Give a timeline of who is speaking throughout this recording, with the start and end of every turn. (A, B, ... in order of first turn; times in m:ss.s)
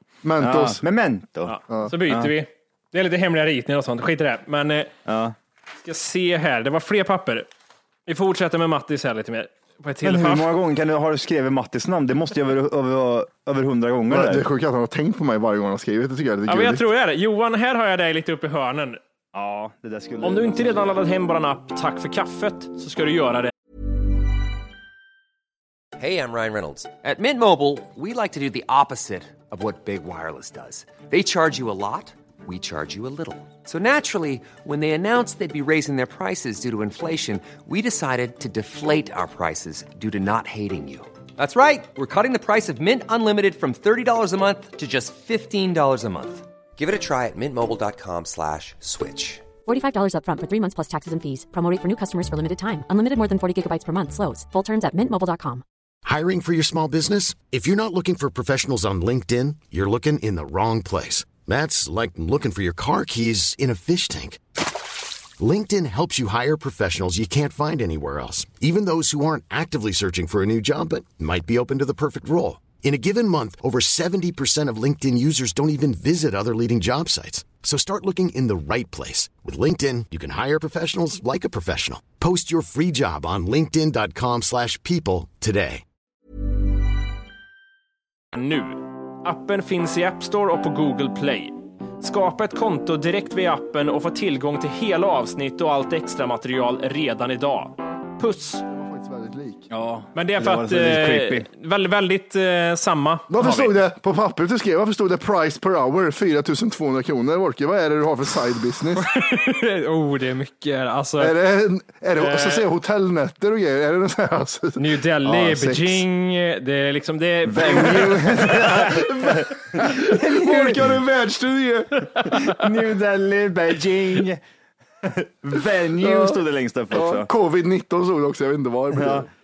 0:00.2-0:00.8 A
0:00.4-0:01.6 B
0:01.5-0:04.9 C
0:05.1-0:05.4 B
0:05.8-0:07.5 C
0:08.1-0:10.5 C
0:10.0-0:14.5 B
0:14.1-0:16.8 A
0:16.5-0:19.0 C
0:19.3-0:20.9 B
0:20.2-0:23.5 C
0:26.0-0:49.5 D
0:49.7-0:55.6 E
0:56.0-1:04.6 F
1:05.4-1:25.8 F
1:28.3-1:38.6 C
1:38.7-1:39.7 A
1:39.7-1:41.5 B
1:40.2-1:43.7 C
1:43.3-1:49.0 A
1:49.0-1:51.3 C
1:51.2-1:56.0 A
1:52.2-1:52.6 C
1:54.8-1:58.7 C
1:57.5-2:01.0 B
1:57.6-2:02.3 A
2:02.3-2:04.4 B
2:05.0-2:07.3 B
2:06.0-2:06.4 A
2:06.9-2:09.3 A
2:08.9-2:09.3 B